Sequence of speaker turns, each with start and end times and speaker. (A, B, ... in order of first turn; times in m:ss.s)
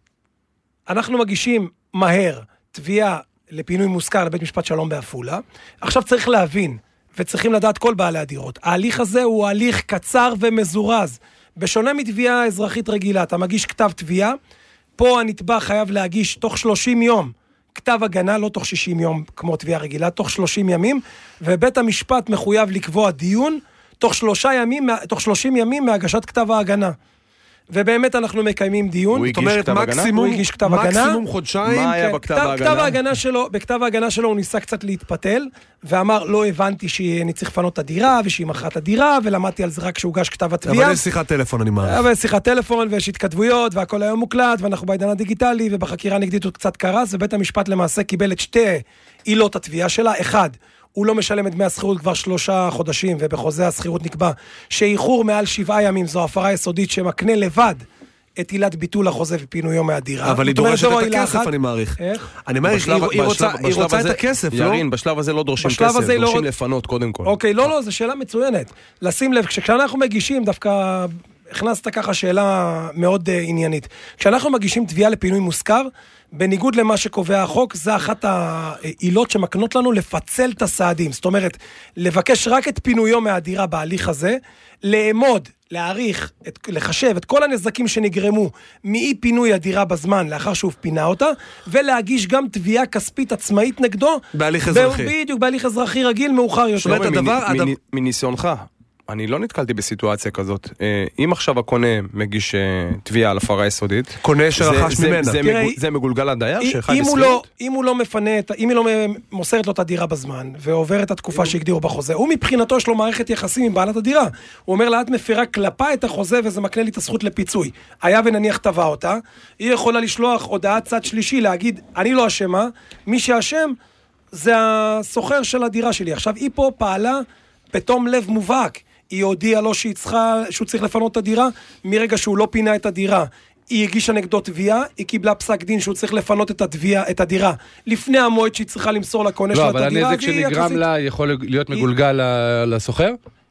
0:00.9-0:14.4 A
0:15.0-0:27.0 A
0:27.7-0:29.3 A
0:29.1-0:30.1 B
0:29.3-0:32.1 C
0:30.1-0:31.2 A
0:31.6-0:33.0 B
0:32.0-0:41.0 A
0:40.6-0:42.1 C
0:41.8-0:57.8 A
0:58.4-1:02.3 A
1:00.2-1:04.8 C
1:02.7-1:07.4 B
1:05.6-1:06.5 A
1:07.2-1:37.0 A
1:34.3-1:35.1 C
1:36.8-1:37.8 C
1:36.8-1:47.4 B
1:44.2-1:45.4 C
1:45.4-1:45.8 A
1:46.6-2:03.8 A
2:04.3-2:20.8 A
2:19.5-2:23.2 D